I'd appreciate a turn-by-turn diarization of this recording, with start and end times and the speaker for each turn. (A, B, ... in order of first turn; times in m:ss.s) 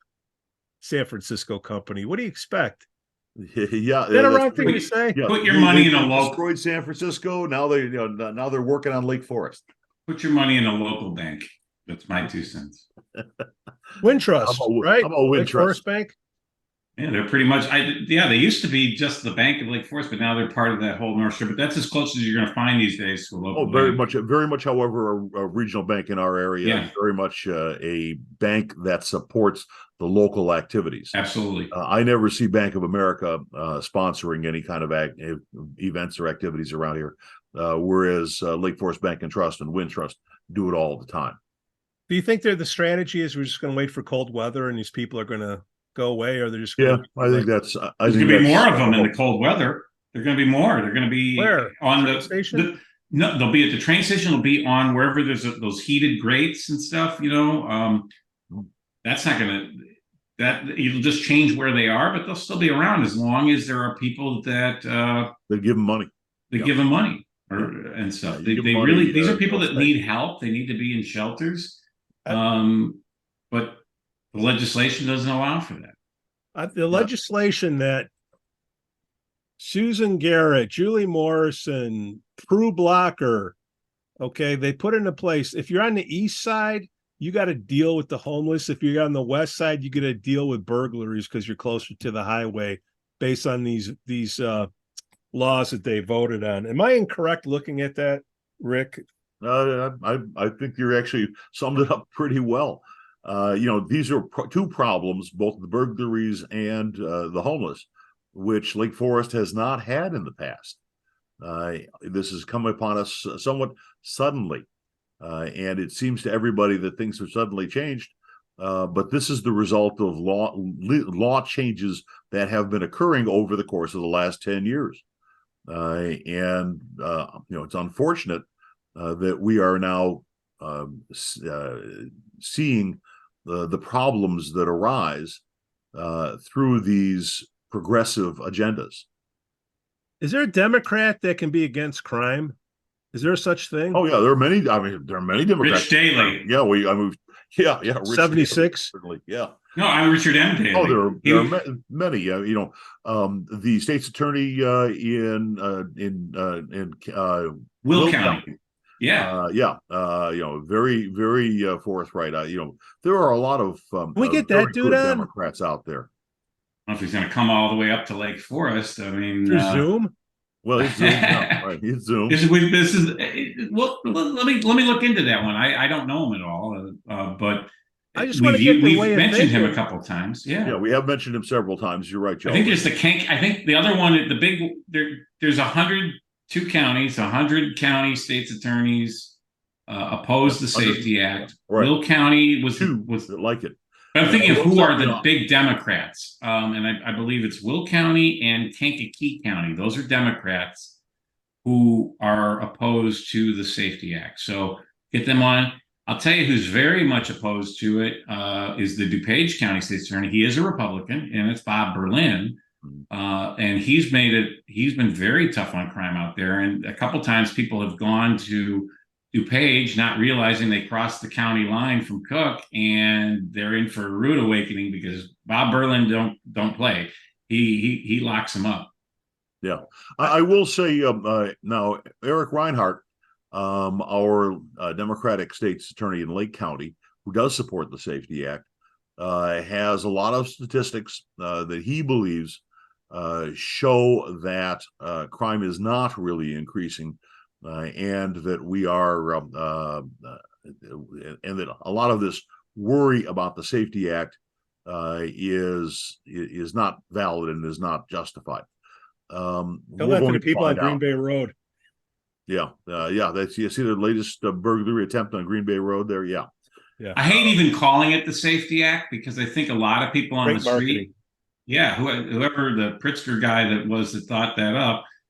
0:00.8-0:02.8 A
0:03.4-0:09.6 B
0:04.1-0:05.2 A
0:04.6-0:06.4 C
0:10.1-0:12.8 C
0:14.0-0:16.1 A
0:14.4-0:15.8 B
0:17.0-0:24.0 C
0:23.5-0:31.1 B
0:26.6-0:26.9 C
0:31.1-0:31.7 C
0:31.7-0:41.4 B
0:42.1-0:47.5 A
0:46.8-0:49.1 B
0:48.0-0:58.1 C
0:51.4-0:52.7 A
0:59.0-1:05.3 C
1:05.5-1:06.7 B
1:06.5-1:13.8 C
1:08.3-1:09.9 B
1:14.3-1:15.9 C
1:16.5-1:18.1 A
1:19.6-1:23.6 A
1:24.2-1:34.7 A
1:35.3-1:39.0 A
1:39.4-1:50.8 B
1:51.4-1:54.6 B
1:55.2-2:05.0 B
2:05.7-2:08.4 B
2:09.0-2:15.4 B
2:15.9-2:19.0 B
2:20.2-2:22.5 A
2:23.1-2:24.0 A
2:23.9-2:29.5 B
2:25.6-2:26.4 C
2:28.0-2:28.9 A
2:29.7-2:31.6 C
2:30.7-2:38.6 B
2:37.8-2:38.4 C
2:39.0-2:39.3 C
2:39.2-2:46.1 B
2:44.1-2:45.3 A
2:46.9-2:49.9 C
2:49.4-2:50.1 A
2:50.6-2:52.4 B
2:50.8-2:51.7 C
2:52.3-3:00.8 C
2:58.2-2:59.8 A
3:00.6-3:02.9 B
3:02.4-3:13.3 C
3:10.4-3:11.9 B
3:12.7-3:15.2 B
3:14.1-3:21.0 C
3:21.6-3:48.9 C
3:49.6-3:58.6 B
3:59.2-4:18.6 B
4:19.3-4:21.0 B
4:20.0-4:21.5 A
4:22.5-4:26.4 B
4:27.2-4:31.1 C
4:27.2-4:27.6 B
4:30.4-4:31.1 A
4:31.7-4:35.0 C